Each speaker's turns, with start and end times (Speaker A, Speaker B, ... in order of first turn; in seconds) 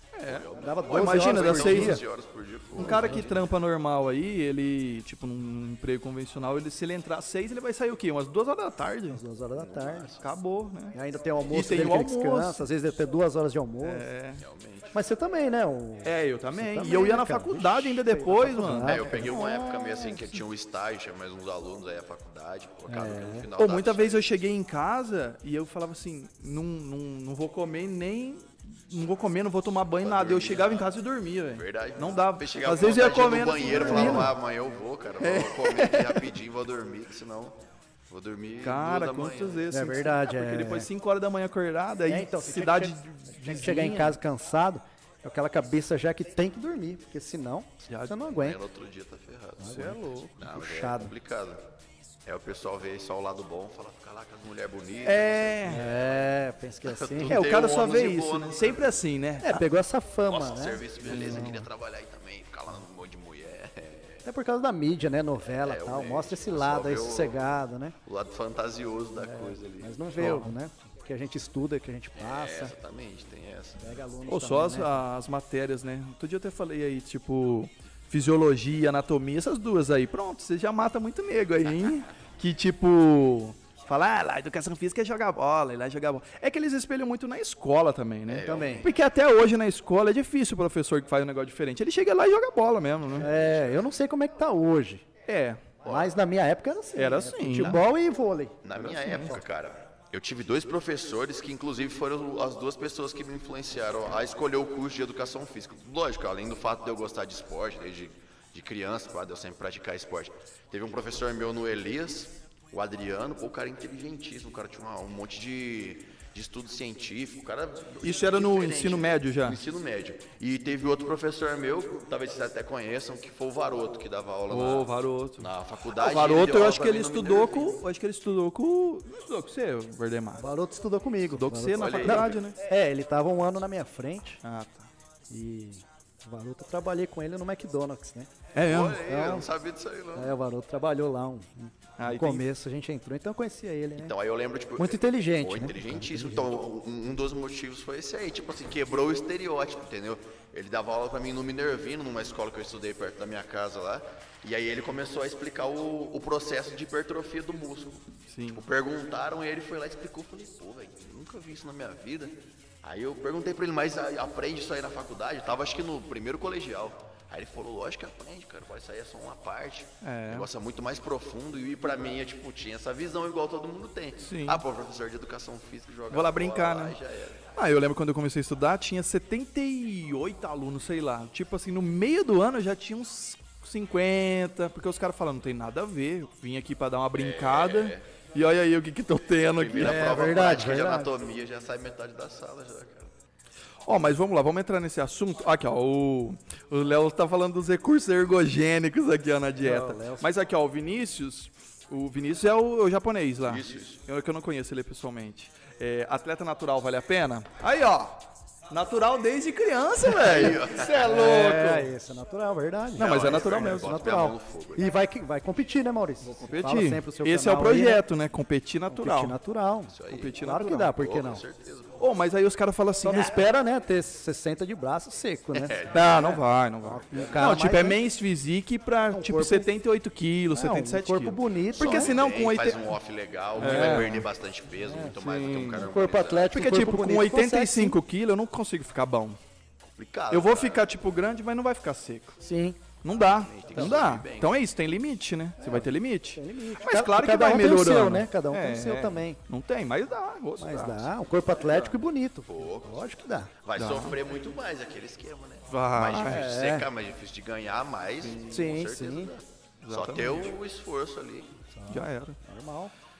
Speaker A: 0.1-2.0, 2.8-9.2, 10.2-11.0, 11.5-12.6, 13.8-14.4, 16.0-20.4, 23.6-34.3, 35.2-36.3, 38.6-44.2, 47.9-48.2, 49.7-50.4, 55.0-55.9, 57.2-59.6, 61.0-61.5, 70.2-70.5, 74.3-93.3, 95.3-95.7, 97.0-97.8, 98.8-99.3, 118.0-119.6, 124.5-130.5, 131.3-132.6, 134.4-134.9, 138.5-139.0, 142.0-142.4, 158.3-158.7, 170.0-170.5, 174.2-174.6, 176.1-177.0, 177.5-190.2, 193.9-211.9, 213.0-214.0, 216.3-219.4, 220.1-220.9, 222.0-223.4, 225.9-232.9, 233.6-234.3, 235.2-235.8, 236.5-239.4, 240.3-242.4, 243.0-251.1, 253.8-254.2, 255.7-256.5, 259.8-260.6, 261.9-262.4
Speaker B: 0.3-3.4, 9.6-10.2, 14.4-15.0, 18.8-24.3, 30.0-30.9, 31.5-37.6, 38.1-39.7, 48.3-51.6, 52.3-56.3, 56.8-59.0, 60.3-64.2, 65.6-67.4, 68.0-70.5, 72.2-74.0, 88.3-88.9, 93.3-93.8, 95.8-96.1, 98.6-127.8, 131.7-132.4, 138.7-140.3, 144.0-177.4, 187.2-188.1, 189.6-193.1, 203.4-204.0, 210.2-211.1, 213.0-214.9, 219.9-222.0, 225.5-226.4, 227.1-227.4, 231.8-236.8, 239.8-240.9, 243.3-244.6, 252.5-261.6
Speaker C: 0.5-2.0, 2.8-3.3, 9.1-10.1, 10.9-14.1, 14.9-19.3, 22.9-23.5, 33.7-34.3, 39.7-40.9, 42.1-48.6, 49.6-51.1, 55.7-57.4, 59.4-61.7, 64.2-68.0, 69.2-72.7, 73.8-75.0, 88.4-88.9, 93.2-95.1, 95.8-99.4, 130.4-134.4, 135.3-138.3, 139.0-139.5, 140.2-144.1, 144.8-146.6, 189.8-191.1, 199.6-200.3, 210.2-218.0, 218.9-221.4, 223.0-226.3, 226.9-228.0, 229.1-229.7, 230.5-232.2, 233.6-234.2, 234.8-235.2, 235.7-238.0, 242.4-242.8, 243.7-244.1, 245.6-249.4, 250.6-253.5, 256.1-256.9, 258.5-259.3, 261.7-262.9